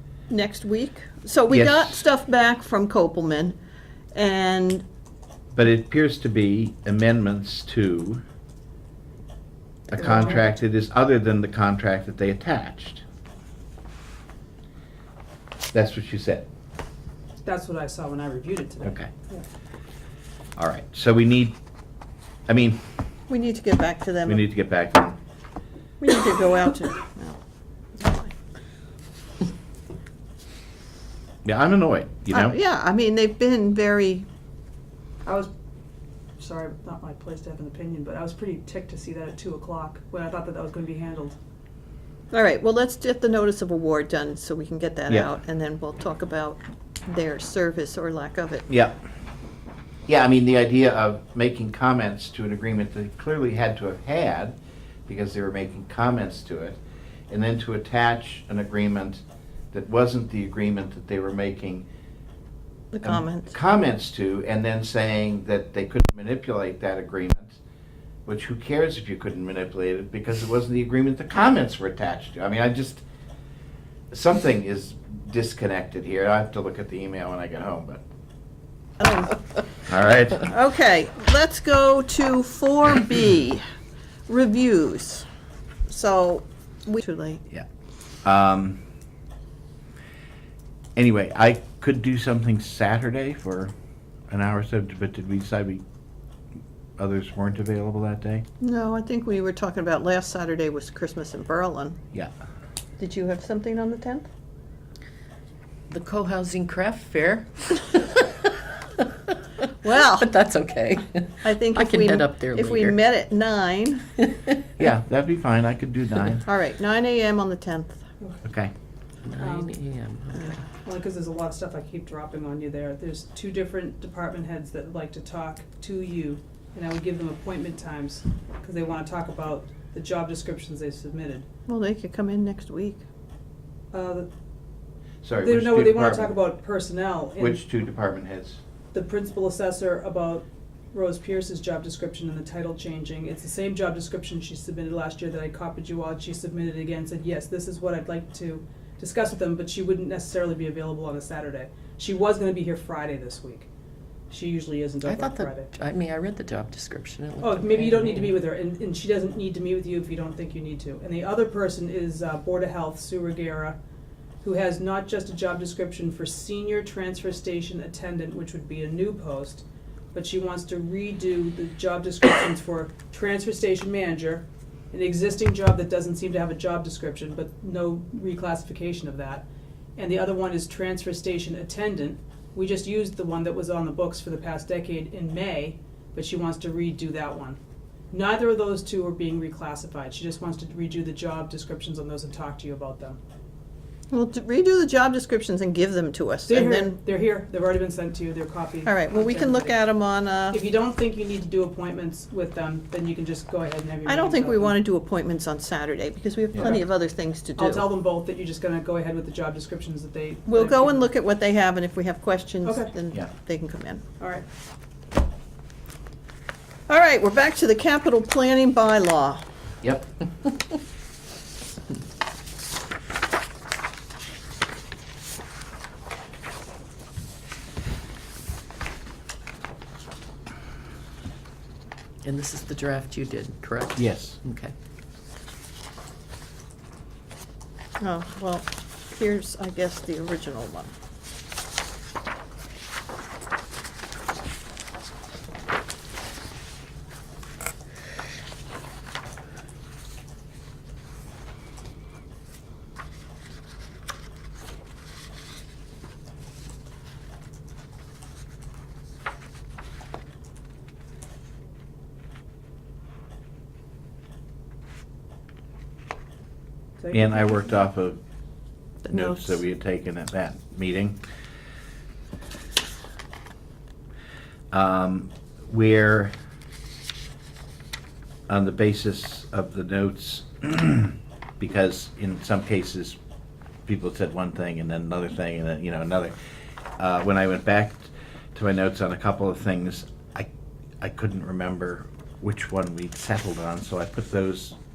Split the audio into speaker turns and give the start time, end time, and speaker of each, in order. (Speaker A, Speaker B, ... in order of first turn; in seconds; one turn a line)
Speaker A: 0.3-3.5
Speaker B: 1.5-2.0
Speaker A: 4.1-4.8
Speaker B: 5.5-8.2
Speaker B: 9.9-13.0
Speaker B: 15.7-16.5
Speaker C: 17.4-19.4
Speaker B: 18.8-19.1
Speaker B: 20.6-21.6
Speaker B: 22.5-22.8
Speaker A: 23.3-24.4
Speaker B: 24.2-25.2
Speaker A: 26.0-27.4
Speaker A: 27.9-28.3
Speaker B: 31.4-32.6
Speaker A: 32.3-34.2
Speaker C: 35.2-35.5
Speaker C: 36.4-41.4
Speaker A: 42.3-48.7
Speaker B: 48.7-49.0
Speaker B: 50.1-54.5
Speaker B: 55.1-61.9
Speaker A: 62.9-63.5
Speaker B: 63.0-67.6
Speaker B: 68.3-73.0
Speaker B: 74.1-78.0
Speaker A: 79.0-79.4
Speaker B: 79.8-80.5
Speaker A: 80.4-83.6
Speaker A: 84.3-85.2
Speaker A: 85.9-87.4
Speaker B: 88.2-88.8
Speaker B: 91.0-93.7
Speaker B: 94.3-95.8
Speaker B: 97.0-98.4
Speaker A: 98.6-102.0
Speaker A: 103.0-104.3
Speaker D: 105.9-109.3
Speaker A: 109.8-110.3
Speaker D: 110.0-113.0
Speaker A: 111.4-114.0
Speaker B: 114.8-116.4
Speaker A: 116.4-118.0
Speaker B: 118.4-118.7
Speaker D: 119.2-120.7
Speaker C: 119.4-119.7
Speaker C: 120.8-131.4
Speaker A: 131.7-133.0
Speaker C: 133.9-134.3
Speaker B: 135.2-136.3
Speaker C: 135.4-137.6
Speaker B: 137.4-138.6
Speaker C: 138.9-153.7
Speaker C: 154.3-155.7
Speaker D: 155.0-158.4
Speaker C: 157.4-163.8
Speaker C: 164.4-179.4
Speaker C: 180.0-187.6
Speaker C: 188.1-193.2
Speaker A: 194.1-197.0
Speaker C: 196.4-199.8
Speaker A: 198.8-200.6
Speaker C: 200.5-204.8
Speaker A: 204.1-207.9
Speaker B: 206.5-206.8
Speaker C: 207.6-211.0
Speaker A: 210.5-214.0
Speaker C: 212.6-212.9
Speaker C: 214.2-214.4
Speaker A: 216.9-219.4
Speaker B: 219.8-220.1
Speaker D: 232.2-234.7
Speaker B: 234.0-234.4
Speaker A: 238.0-240.9
Speaker C: 267.0-267.7
Speaker B: 267.1-268.2
Speaker A: 269.0-269.6
Speaker B: 269.1-271.2
Speaker B: 274.7-276.3
Speaker B: 278.5-283.2
Speaker B: 283.9-286.3
Speaker B: 287.0-290.5
Speaker B: 291.0-294.8